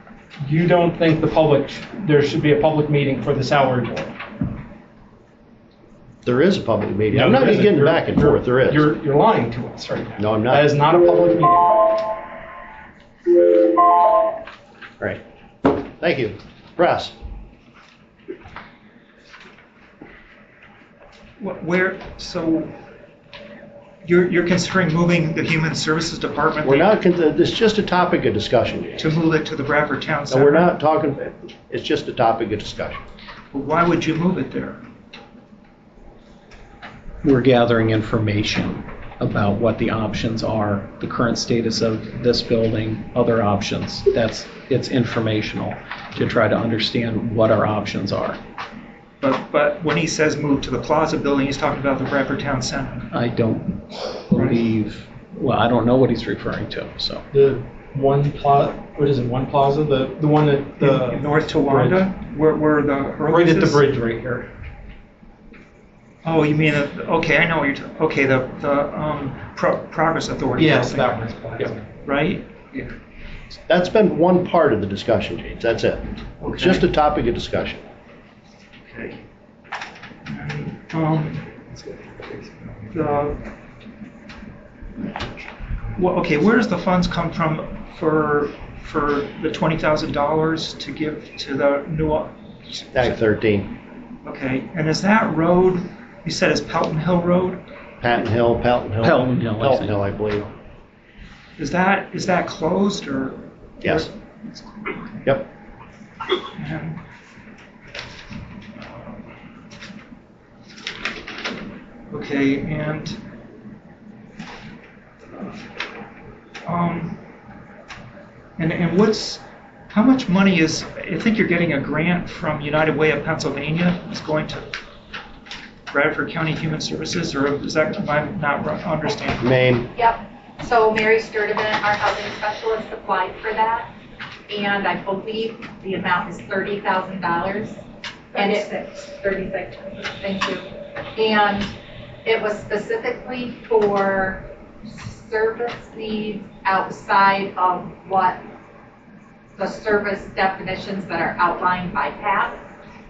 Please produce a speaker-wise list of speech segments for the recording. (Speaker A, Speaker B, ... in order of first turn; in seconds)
Speaker A: 0.4-4.2, 7.1-11.9, 57.3-62.1, 63.3-64.5, 70.6-71.8
Speaker B: 6.2-8.9, 10.2-10.7, 15.0-17.1, 26.6-29.0, 30.3-33.0, 73.7-77.8, 92.9-93.7, 98.0-100.5, 103.8-104.1, 129.4-129.9
Speaker C: 21.4-22.8, 24.0-26.9, 29.0-30.7, 33.5-34.8, 49.2-53.1, 54.3-54.6, 60.8-63.8, 66.2-72.9, 76.4-76.8, 78.9-79.2, 80.3-81.6, 82.9-83.5, 85.9-93.1, 94.2-97.6, 101.6-105.0, 106.5-107.0, 108.8-109.2, 112.1-113.2, 116.6-117.2, 118.6-124.7, 125.9-129.5
Speaker D: 37.2-48.4, 53.1-57.2, 99.0-100.0
Speaker E: 129.9-133.9, 134.5-137.8, 138.3-140.7, 141.2-141.7, 142.2-148.4, 149.6-152.6